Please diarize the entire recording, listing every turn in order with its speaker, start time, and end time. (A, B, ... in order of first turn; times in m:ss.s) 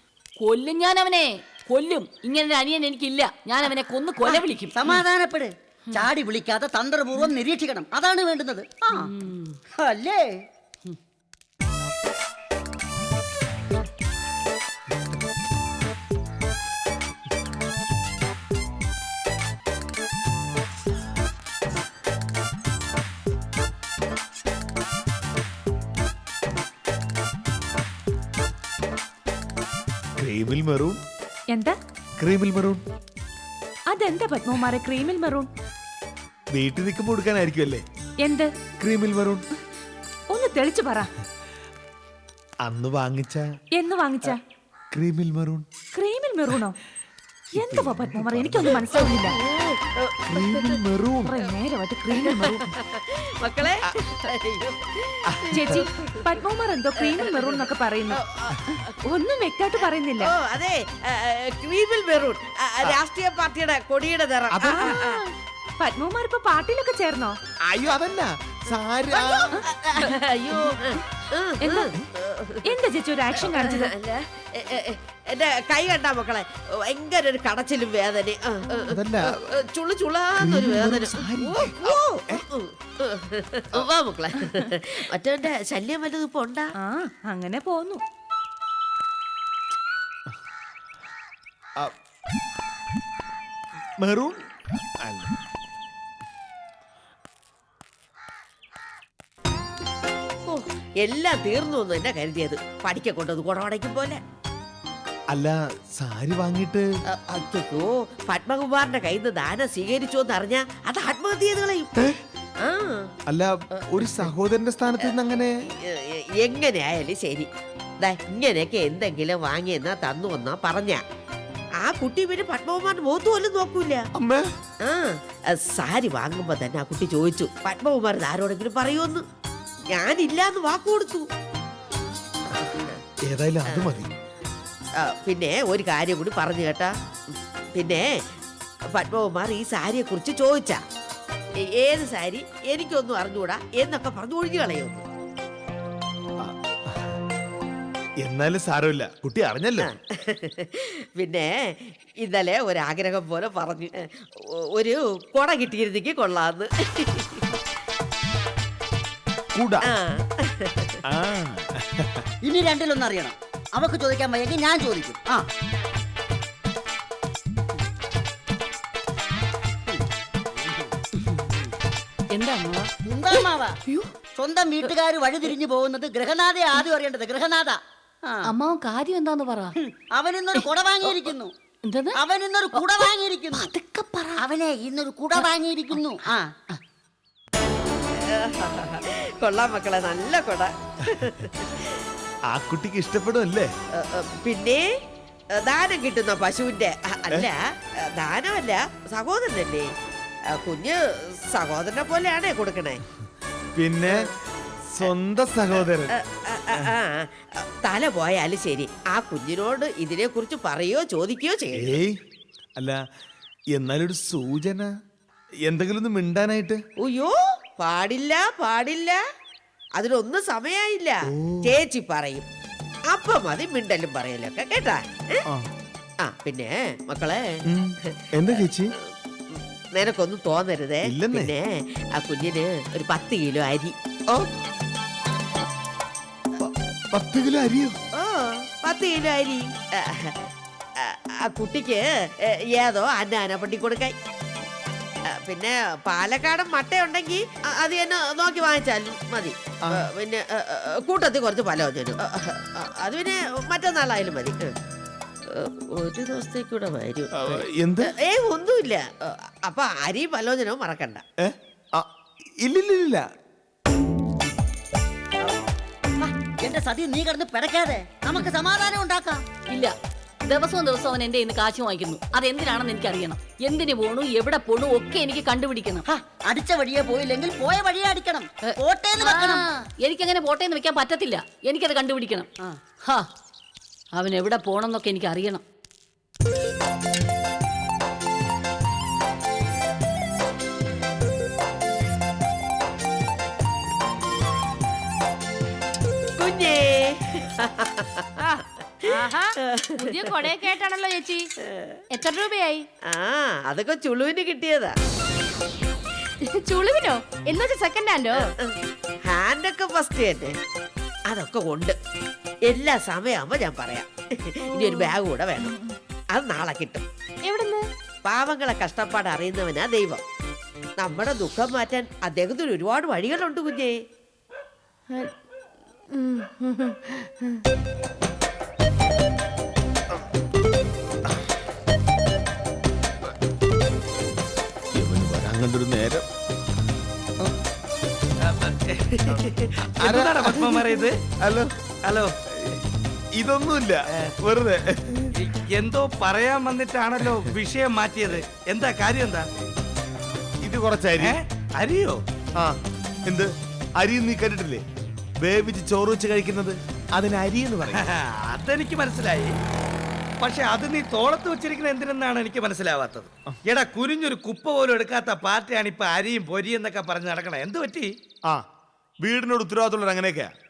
0:00.4-0:05.0 A
0:04.2-0:09.1 B
0:08.9-0:09.6 A
0:09.8-0:10.2 B
0:30.2-0:31.0 C
0:32.2-0:32.8 C
0:33.9-0:35.5 D
0:36.5-0:37.8 C
0:38.2-0:38.5 D
0:38.8-0:39.4 C
0:40.3-0:41.1 D
0:42.6-0:43.4 C
0:43.8-0:44.3 D
0:44.9-0:45.6 C
0:45.9-0:46.8 D
0:47.5-0:48.8 C
0:47.6-0:49.3 D
0:48.6-0:50.8 E
0:50.3-0:51.4 C
0:51.4-0:52.6 D
0:52.1-0:56.4 E
0:55.3-0:55.9 C
0:56.4-0:58.1 D
0:57.0-0:59.0 E
0:59.1-1:00.2 D
0:59.7-1:05.2 E
1:04.5-1:05.0 C
1:05.8-1:07.4 D
1:07.7-1:09.5 C
1:08.7-1:12.8 E
1:12.7-1:13.9 D
1:13.3-1:26.7 E
1:18.9-1:19.3 C
1:20.4-1:22.4 C
1:26.8-1:28.0 D
1:34.0-1:34.4 C
1:35.0-1:35.4 C
1:40.4-1:44.2 E
1:45.3-1:46.8 C
1:47.1-1:51.9 E
1:52.6-1:53.1 E
1:53.3-1:55.5 C
1:53.7-1:54.3 E
1:55.8-1:57.5 E
1:58.0-2:01.0 E
2:01.8-2:04.0 E
2:04.2-2:04.5 C
2:04.8-2:09.2 E
2:09.9-2:11.3 E
2:12.5-2:13.0 E
2:13.2-2:14.1 C
2:15.0-2:16.9 E
2:17.7-2:18.0 E
2:18.9-2:20.8 E
2:21.7-2:25.0 E
2:26.4-2:27.1 C
2:28.2-2:29.9 C
2:29.8-2:31.5 E
2:32.2-2:33.9 E
2:34.7-2:37.4 E
2:39.5-2:39.8 C
2:39.9-2:41.0 E
2:41.0-2:42.2 C
2:42.4-2:45.4 B
2:52.3-2:54.1 A
2:53.0-2:53.7 B
2:54.4-2:58.4 B
2:58.4-2:59.7 A
2:59.8-3:01.5 B
3:00.5-3:01.3 A
3:01.8-3:02.2 A
3:02.2-3:03.7 B
3:02.7-3:04.4 A
3:04.4-3:06.4 B
3:05.3-3:06.0 A
3:08.3-3:12.0 E
3:12.5-3:13.7 C
3:14.0-3:14.8 E
3:15.6-3:17.6 E
3:18.2-3:19.8 E
3:20.5-3:21.0 E
3:21.5-3:23.0 E
3:23.7-3:24.2 C
3:24.9-3:26.1 C
3:25.8-3:32.0 E
3:31.8-3:32.2 C
3:33.7-3:34.9 C
3:35.6-3:36.8 C
3:37.0-3:39.2 E
3:40.0-3:42.4 E
3:41.3-3:41.7 C
3:43.1-3:45.4 E
3:46.2-3:47.4 E
3:47.7-3:48.9 C
3:48.1-3:53.9 E
3:51.0-3:51.5 C
3:56.6-3:58.0 C
3:58.2-4:00.3 E
4:01.0-4:04.1 E
4:05.4-4:14.7 E
4:15.5-4:21.2 E
4:17.3-4:18.1 C
4:21.4-4:22.1 C
4:22.6-4:23.3 C
4:26.2-4:29.4 B
4:30.4-4:36.1 A
4:36.1-4:39.6 B
4:38.6-4:42.5 A
4:44.1-4:45.6 A
4:56.4-5:00.5 E
4:59.1-5:01.5 F
5:01.7-5:01.9 E
5:02.1-5:02.8 F
5:03.1-5:04.9 E
5:06.4-5:08.5 F
5:08.4-5:08.8 E
5:09.3-5:10.6 E
5:11.3-5:12.0 E
5:12.6-5:15.7 E
5:14.7-5:15.9 F
5:16.3-5:17.0 E
5:17.4-5:17.8 F
5:18.2-5:20.2 E
5:21.0-5:23.9 E
5:26.1-5:27.5 F
5:34.9-5:36.3 C
5:38.4-5:41.2 G
5:39.2-5:39.6 E
5:40.0-5:40.9 C
5:41.4-5:41.7 C
5:42.0-5:42.3 G
5:42.5-5:42.8 C
5:43.4-5:45.3 C
5:45.4-5:49.4 G
5:50.6-5:51.4 C
5:51.2-5:52.2 G
5:52.6-5:54.8 C
5:55.4-5:58.0 C
5:57.9-5:59.5 G
6:00.4-6:08.1 G
6:09.2-6:10.5 C